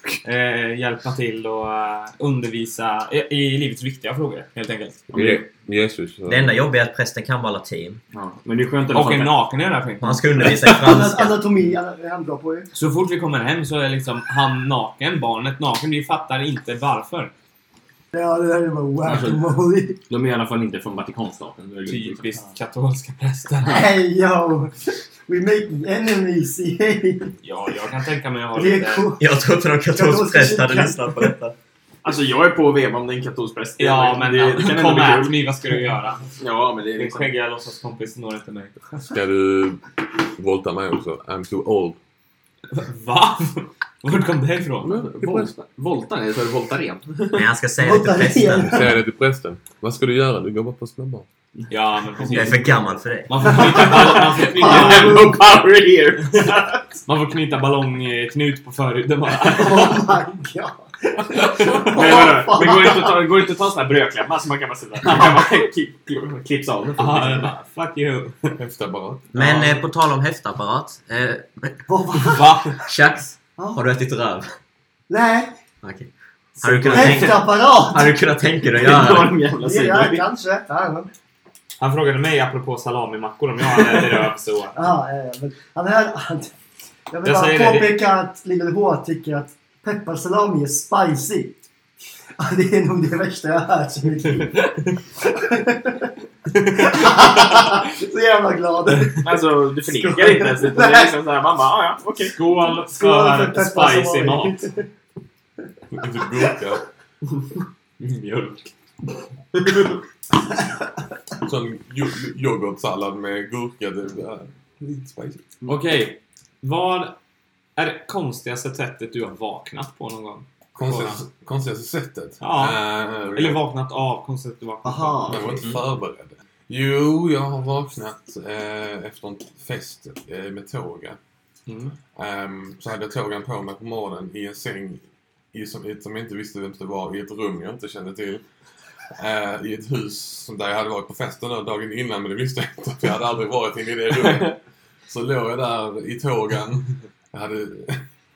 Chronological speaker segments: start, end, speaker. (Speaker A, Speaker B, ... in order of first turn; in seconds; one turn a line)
Speaker A: 0.2-4.5
Speaker B: 4.5-5.5
Speaker C: 5.1-6.6
Speaker D: 6.3-8.0
Speaker B: 8.1-9.4
Speaker A: 8.9-10.6
Speaker D: 10.0-11.5
Speaker E: 10.4-12.7
Speaker A: 12.7-17.3
Speaker E: 18.1-20.0
Speaker B: 19.0-19.6
Speaker B: 20.1-22.4
Speaker A: 21.9-23.9
Speaker E: 23.6-27.3
Speaker A: 27.4-29.1
Speaker E: 28.5-29.3
Speaker D: 29.2-31.6
Speaker E: 29.9-31.3
Speaker B: 32.0-35.4
Speaker A: 33.8-36.3
Speaker B: 36.4-37.3
Speaker A: 37.0-38.7
Speaker C: 39.1-42.0
Speaker A: 42.7-45.0
Speaker C: 44.8-45.5
Speaker B: 45.2-47.5
Speaker D: 47.3-48.8
Speaker E: 47.8-49.0
Speaker C: 48.6-51.3
Speaker A: 51.7-52.7
Speaker D: 52.3-53.8
Speaker A: 53.3-55.3
Speaker B: 53.4-56.5
Speaker E: 54.0-55.4
Speaker A: 56.3-60.1
Speaker E: 59.4-63.2
Speaker A: 61.3-62.5
Speaker B: 61.7-67.5
Speaker A: 67.0-68.6
Speaker C: 68.6-69.7
Speaker D: 69.3-74.5
Speaker E: 71.9-72.7
Speaker A: 72.2-72.8
Speaker E: 73.6-73.8
Speaker E: 75.1-75.5
Speaker D: 75.8-79.3
Speaker E: 76.6-78.2
Speaker B: 76.8-77.3
Speaker B: 78.7-80.2
Speaker E: 79.5-81.1
Speaker A: 81.8-84.8
Speaker E: 84.7-86.5
Speaker E: 87.1-91.6
Speaker A: 87.2-88.0
Speaker E: 92.4-96.1
Speaker A: 94.5-94.9
Speaker A: 96.5-97.7
Speaker E: 96.7-101.2
Speaker B: 99.2-102.3
Speaker A: 102.3-104.6
Speaker E: 102.6-104.9
Speaker C: 105.9-106.8
Speaker B: 108.0-108.7
Speaker B: 109.6-109.8
Speaker C: 111.4-115.4
Speaker A: 115.7-117.2
Speaker A: 117.8-121.2
Speaker C: 120.8-123.6
Speaker A: 122.4-125.6
Speaker E: 124.8-125.7
Speaker C: 125.3-131.2
Speaker A: 131.7-131.9
Speaker C: 132.2-135.0
Speaker C: 135.5-138.4
Speaker C: 139.2-148.0